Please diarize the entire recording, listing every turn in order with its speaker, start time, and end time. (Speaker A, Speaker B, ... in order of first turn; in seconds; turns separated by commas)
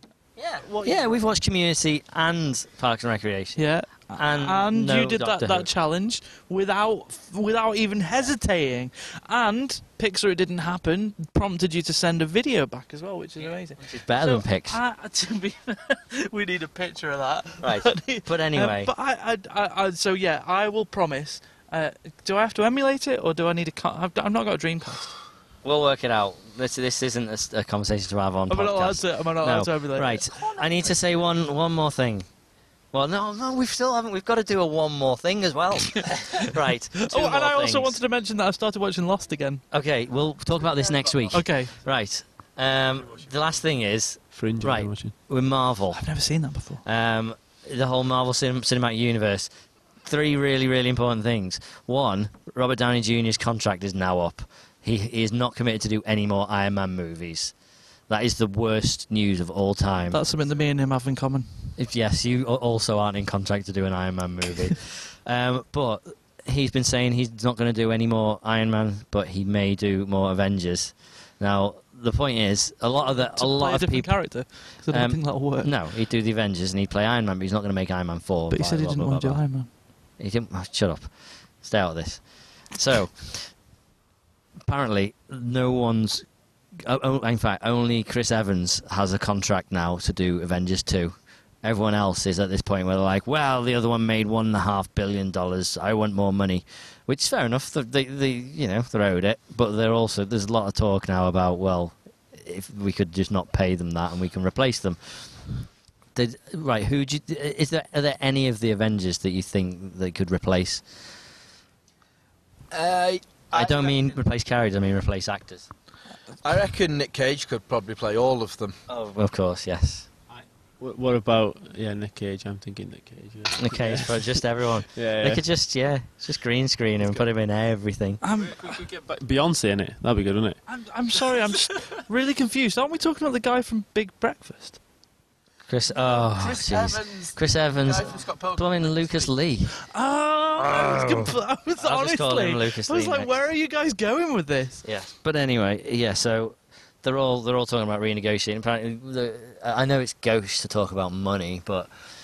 Speaker A: 0.4-5.7, Speaker B: 0.6-1.2, Speaker B: 3.6-25.1, Speaker A: 13.8-14.8, Speaker A: 17.6-18.9, Speaker A: 25.6-32.3, Speaker B: 28.5-30.6, Speaker A: 32.9-38.0, Speaker B: 37.0-39.6, Speaker A: 39.7-46.0, Speaker B: 41.3-41.8, Speaker C: 44.3-45.1, Speaker B: 45.9-46.8, Speaker A: 46.8-49.5, Speaker A: 50.0-57.5, Speaker A: 58.1-60.2, Speaker B: 60.1-61.7, Speaker A: 61.8-79.5, Speaker B: 73.0-75.7, Speaker B: 78.5-79.7, Speaker A: 80.2-83.5, Speaker A: 84.7-105.4, Speaker A: 106.2-110.8, Speaker D: 112.7-114.2, Speaker A: 113.5-115.7, Speaker D: 116.4-118.8, Speaker A: 118.9-120.1, Speaker C: 120.3-124.4, Speaker A: 123.6-128.2, Speaker C: 124.9-125.4, Speaker B: 128.2-128.8, Speaker C: 128.4-130.6, Speaker B: 130.7-134.8, Speaker A: 135.7-139.8, Speaker D: 135.9-139.3, Speaker B: 139.8-144.9, Speaker A: 140.6-143.5, Speaker A: 144.8-151.9